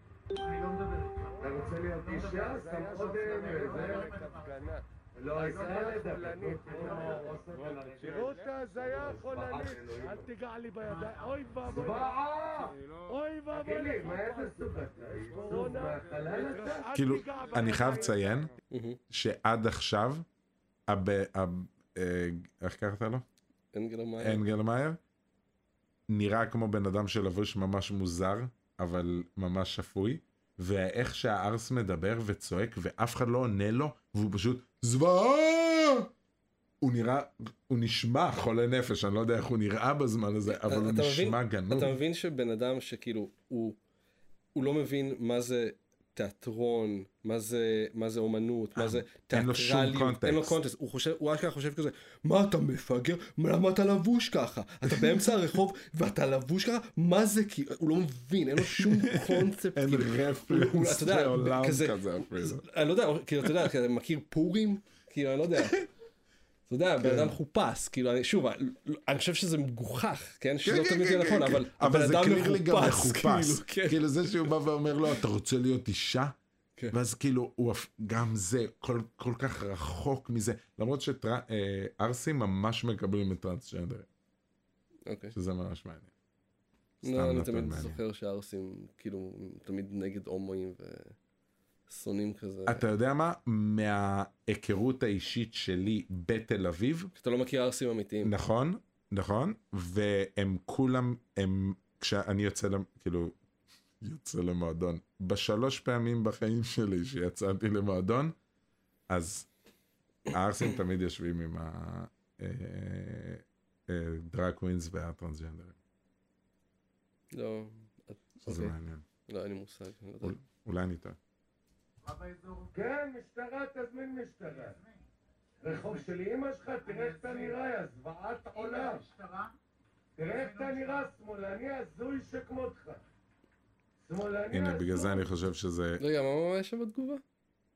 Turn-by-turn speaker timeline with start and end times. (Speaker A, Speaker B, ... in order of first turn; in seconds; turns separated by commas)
Speaker A: 1.4-18.2, Speaker B: 16.9-18.5, Speaker C: 18.7-19.0, Speaker B: 19.1-20.2, Speaker B: 20.9-23.2, Speaker C: 23.7-24.4, Speaker B: 24.2-25.0, Speaker B: 26.1-36.1, Speaker B: 36.8-42.0, Speaker C: 40.5-43.8, Speaker C: 44.5-65.8, Speaker B: 48.8-50.6, Speaker B: 54.9-55.3, Speaker B: 58.6-62.6, Speaker C: 66.7-74.5, Speaker B: 67.0-67.4, Speaker B: 70.6-76.4, Speaker B: 76.9-84.1, Speaker C: 85.1-85.4, Speaker B: 85.3-86.1, Speaker B: 87.0-88.0, Speaker C: 87.0-91.2, Speaker C: 91.9-92.9, Speaker B: 92.7-97.1, Speaker C: 97.2-98.3, Speaker B: 98.2-103.3, Speaker B: 104.0-108.3, Speaker B: 109.1-109.5, Speaker B: 110.3-115.8, Speaker C: 117.3-118.8, Speaker B: 118.5-119.0, Speaker C: 119.3-120.4, Speaker B: 120.2-121.2, Speaker A: 122.7-124.8, Speaker A: 125.6-129.1, Speaker A: 130.2-133.0, Speaker A: 134.1-135.2, Speaker B: 134.5-136.0, Speaker C: 136.0-137.2